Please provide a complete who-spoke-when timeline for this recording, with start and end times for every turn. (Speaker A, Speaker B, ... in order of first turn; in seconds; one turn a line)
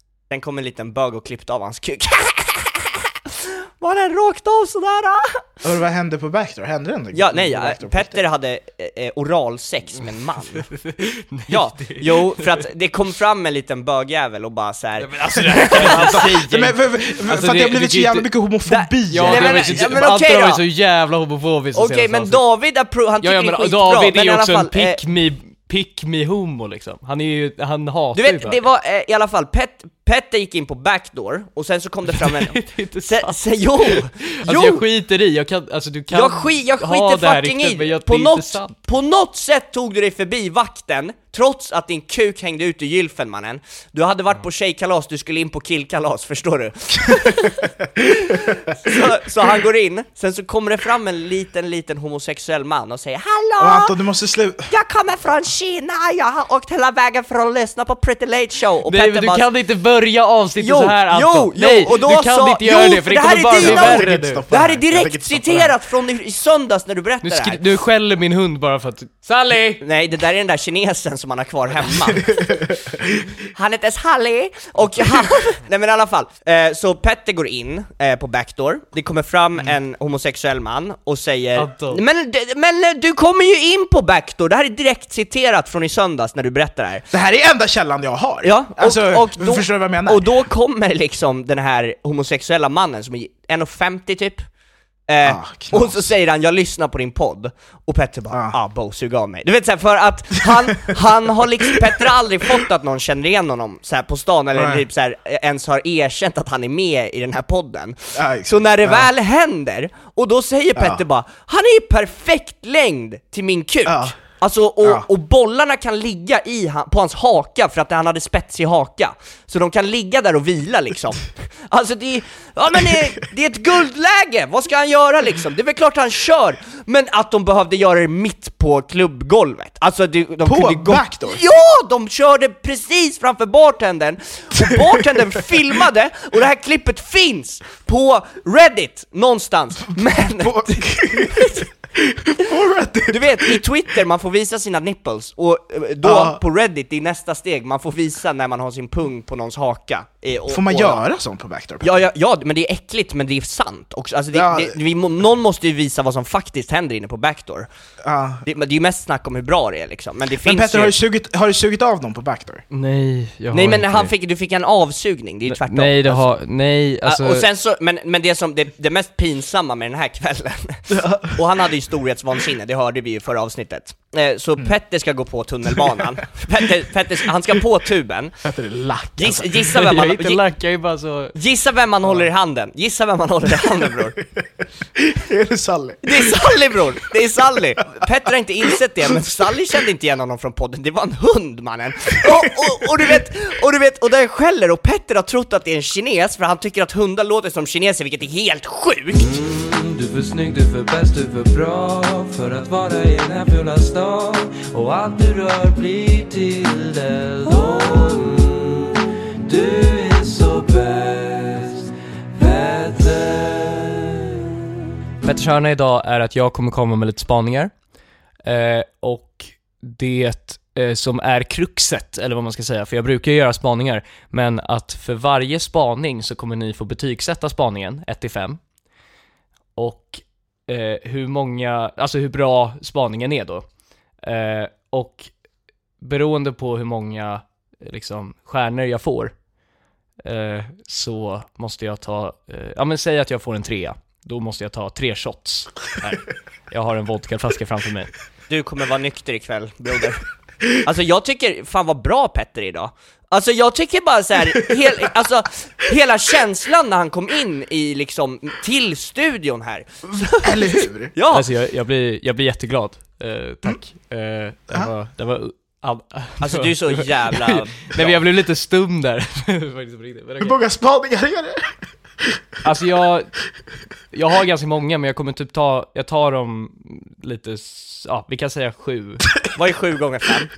Speaker A: 0.3-5.4
Speaker B: 5.6-8.2
Speaker A: 7.1-10.6
Speaker C: 10.6-12.6
Speaker A: 11.5-16.5
Speaker C: 15.0-16.7
Speaker B: 15.3-19.9
Speaker C: 17.3-18.3
Speaker A: 18.7-20.6
Speaker C: 19.1-22.4
Speaker A: 21.7-25.0
Speaker C: 23.2-28.6
Speaker A: 28.1-34.9
Speaker C: 32.1-33.4
Speaker C: 33.9-38.7
Speaker A: 36.1-53.9
Speaker B: 53.6-54.7
Speaker A: 54.7-59.4
Speaker C: 58.9-64.4
Speaker A: 60.6-67.6
Speaker B: 63.5-65.7
Speaker C: 67.2-69.8
Speaker A: 69.8-72.5
Speaker B: 72.0-73.2
Speaker A: 73.5-87.0
Speaker C: 81.5-82.0
Speaker B: 87.1-90.3
Speaker A: 88.4-94.5
Speaker A: 95.1-141.7
Speaker B: 95.2-96.1
Speaker B: 104.5-104.8
Speaker B: 108.1-109.1
Speaker B: 113.8-114.2
Speaker B: 130.4-131.4
Speaker B: 140.0-143.6
Speaker A: 143.1-151.0
Speaker B: 146.0-146.4
Speaker B: 150.5-152.0
Speaker A: 151.8-157.7
Speaker B: 154.3-154.8
Speaker B: 158.0-158.4
Speaker A: 158.4-161.0
Speaker B: 160.4-162.6
Speaker C: 162.7-164.1
Speaker A: 163.5-166.3
Speaker C: 165.5-167.4
Speaker A: 167.0-178.3
Speaker B: 170.9-171.4
Speaker B: 178.4-179.8
Speaker A: 179.2-180.4
Speaker C: 179.8-181.3
Speaker A: 181.3-184.2
Speaker B: 185.0-186.5
Speaker A: 186.0-199.4
Speaker B: 192.2-193.0
Speaker C: 199.4-208.4
Speaker D: 199.8-201.4
Speaker D: 202.5-203.5
Speaker D: 204.1-206.1
Speaker D: 206.8-208.9
Speaker D: 209.4-211.7
Speaker C: 209.8-211.7
Speaker D: 212.4-213.4
Speaker C: 212.7-214.2
Speaker C: 215.2-217.7
Speaker C: 218.4-228.6
Speaker C: 229.8-233.6
Speaker C: 234.2-235.3
Speaker C: 236.0-239.3
Speaker C: 240.2-248.1
Speaker A: 248.5-250.2
Speaker A: 250.8-261.5
Speaker B: 260.1-261.1
Speaker C: 261.3-270.6
Speaker A: 266.4-268.2
Speaker B: 270.4-271.7
Speaker C: 272.6-273.3
Speaker C: 274.1-279.2
Speaker A: 279.6-280.5